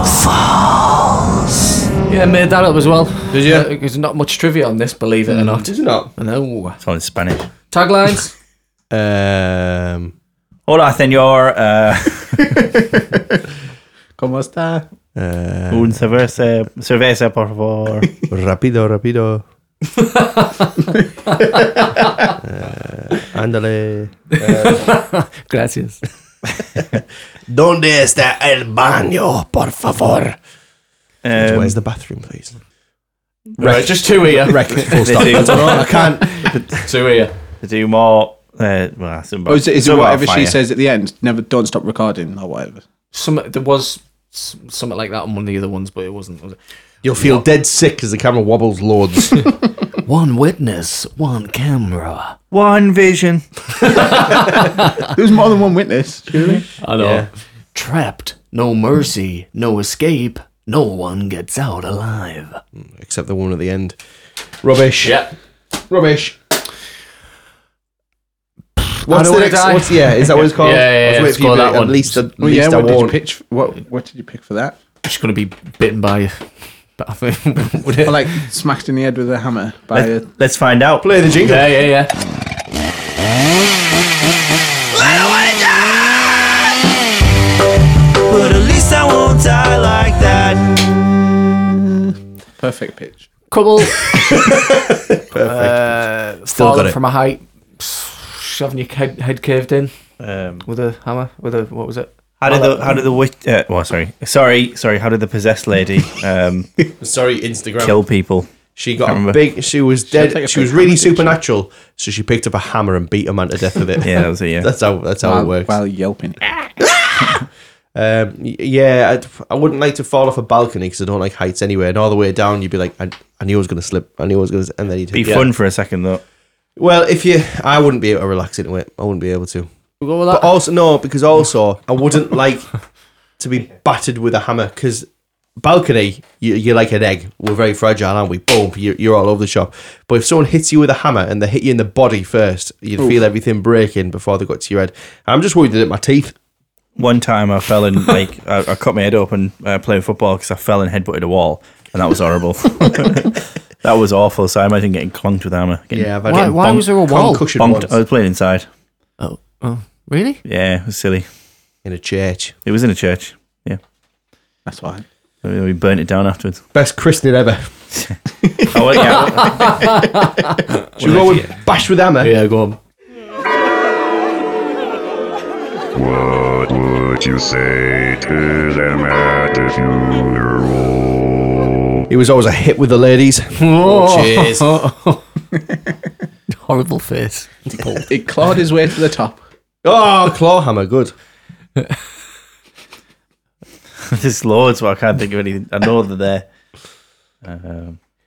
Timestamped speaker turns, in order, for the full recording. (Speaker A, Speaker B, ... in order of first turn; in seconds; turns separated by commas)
Speaker A: 2.0-6.8, Speaker B: 3.3-3.7, Speaker B: 5.3-6.1, Speaker C: 6.8-7.5, Speaker A: 7.7-8.3, Speaker B: 8.9-10.1, Speaker C: 10.7-12.6, Speaker D: 14.2-14.8, Speaker B: 15.2-16.0, Speaker C: 15.7-18.1, Speaker B: 18.3-19.4, Speaker A: 19.9-20.9, Speaker A: 21.4-22.3, Speaker B: 22.4-24.9, Speaker A: 24.4-26.0, Speaker B: 27.5-30.4, Speaker C: 31.2-31.8, Speaker B: 31.3-32.5, Speaker B: 33.6-36.6, Speaker A: 33.6-37.3, Speaker C: 34.9-36.0, Speaker C: 37.6-40.6, Speaker D: 39.5-42.8, Speaker A: 43.1-46.6, Speaker B: 47.0-49.5, Speaker A: 47.2-47.4, Speaker A: 50.0-52.4, Speaker C: 52.5-54.1, Speaker A: 53.8-55.1, Speaker D: 55.0-56.7, Speaker A: 56.8-62.6, Speaker B: 57.0-57.3, Speaker B: 62.7-64.0, Speaker B: 64.6-65.3, Speaker A: 65.0-65.3, Speaker B: 65.9-66.5, Speaker A: 68.8-72.3, Speaker B: 69.0-73.2, Speaker D: 72.4-74.8, Speaker A: 75.0-78.4, Speaker D: 78.0-80.2, Speaker C: 79.9-81.0, Speaker B: 81.0-81.7, Speaker A: 81.4-82.1, Speaker C: 84.9-86.8, Speaker C: 88.2-90.8, Speaker D: 92.6-93.3, Speaker A: 93.5-94.6, Speaker B: 94.1-95.9, Speaker A: 95.4-99.9, Speaker B: 96.5-97.0, Speaker C: 100.2-100.7, Speaker A: 100.6-103.0, Speaker C: 102.4-106.7, Speaker B: 107.0-108.0, Speaker C: 107.8-108.5, Speaker B: 108.8-115.8, Speaker C: 109.0-109.4, Speaker D: 110.1-111.4, Speaker C: 114.0-114.7, Speaker D: 115.2-116.5, Speaker B: 116.8-125.5, Speaker C: 125.1-126.2, Speaker B: 126.8-129.7, Speaker A: 130.0-130.5, Speaker B: 130.3-132.7, Speaker B: 133.4-135.1, Speaker B: 135.6-146.3, Speaker C: 146.9-156.8, Speaker B: 155.9-157.9, Speaker A: 156.2-157.5, Speaker C: 157.6-158.7, Speaker A: 159.2-160.4, Speaker C: 160.4-161.2, Speaker B: 161.8-162.6, Speaker C: 162.7-163.8, Speaker D: 164.7-165.0, Speaker C: 165.4-166.6, Speaker B: 166.7-167.7, Speaker C: 168.1-170.0, Speaker A: 169.4-170.5, Speaker C: 171.0-171.5, Speaker B: 171.0-172.3, Speaker A: 172.2-172.8, Speaker E: 175.9-182.1, Speaker B: 182.1-184.8, Speaker A: 183.6-185.2, Speaker A: 186.5-188.1, Speaker D: 188.1-189.4, Speaker B: 189.8-191.1, Speaker C: 194.0-196.4, Speaker C: 197.4-198.0